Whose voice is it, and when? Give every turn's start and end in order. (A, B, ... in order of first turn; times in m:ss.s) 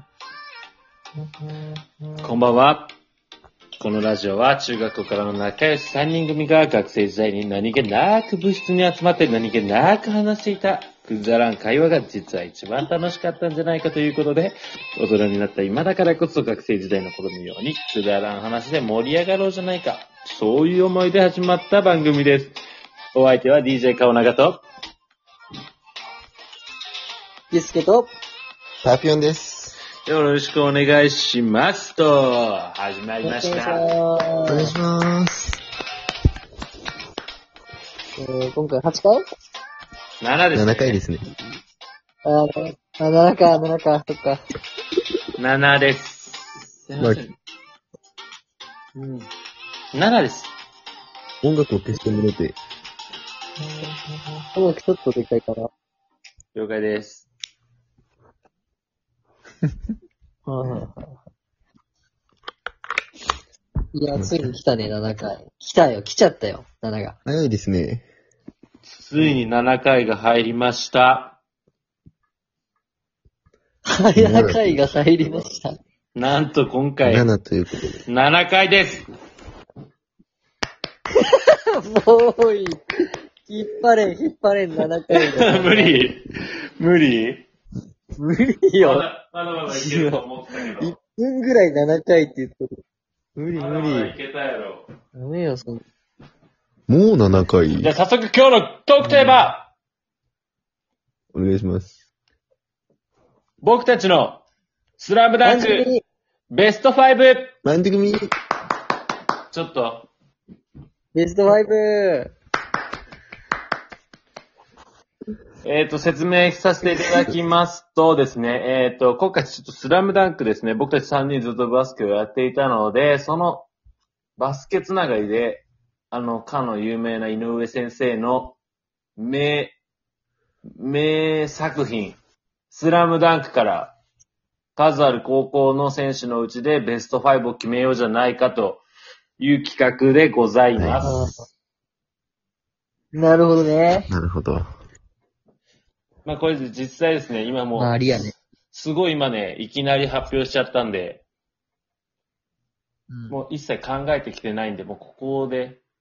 0:02.2-0:02.9 A
0:03.8-0:22.6 A
0:23.1-0:24.6 A
0:27.5-0:28.1 B
0:28.8-0:29.8 C
0:30.0-0:33.8 A
0:33.2-0:34.7 B
0:34.5-0:35.6 C
0:38.2-0:39.2 B
0:40.2-0:41.0 A
0:40.5-0:41.2 C
0:42.2-0:44.4 B
0:45.4-0:47.3 A
0:47.0-0:47.3 C
0:49.0-0:49.3 A
0:49.9-0:50.5 A
0:51.4-0:52.6 C
0:54.5-0:55.7 B
0:56.6-0:57.3 A
1:00.5-1:01.2 B
1:03.9-1:07.2 B
1:04.2-1:04.5 C
1:07.2-1:08.1 C
1:08.9-1:11.4 A
1:14.0-1:15.8 B
1:14.2-1:15.4 C
1:16.2-1:17.3 A
1:17.0-1:18.0 C
1:18.1-1:19.1 A
1:21.3-1:22.8 B
1:23.5-1:26.0 B
1:25.1-1:27.4 A
1:28.2-1:29.0 B
1:28.8-1:30.9 A
1:29.7-1:32.7 B
1:33.4-1:34.2 B
1:33.5-1:34.9 A
1:35.2-1:35.8 B
1:36.9-1:37.9 C
1:37.8-1:39.7 A
1:39.0-1:39.5 B
1:41.3-1:42.0 C
1:43.6-1:44.4 A
1:45.0-1:45.9 A
1:45.4-1:46.0 B
1:46.5-1:47.5 A
1:47.6-1:48.3 C
1:49.5-1:50.1 A
1:51.1-1:52.3 B
1:55.6-2:03.7 A
2:04.4-2:08.6 A
2:09.2-2:09.8 A
2:10.8-2:12.2 A
2:12.7-2:14.0 A
2:14.8-2:18.8 A
2:19.4-2:21.2 A
2:20.8-2:21.1 C
2:21.0-2:21.4 B
2:23.1-2:24.1 B
2:24.1-2:24.6 C
2:26.3-2:28.1 A
2:27.8-2:28.4 B
2:28.7-2:31.2 A
2:33.1-2:33.4 B
2:33.3-2:35.8 A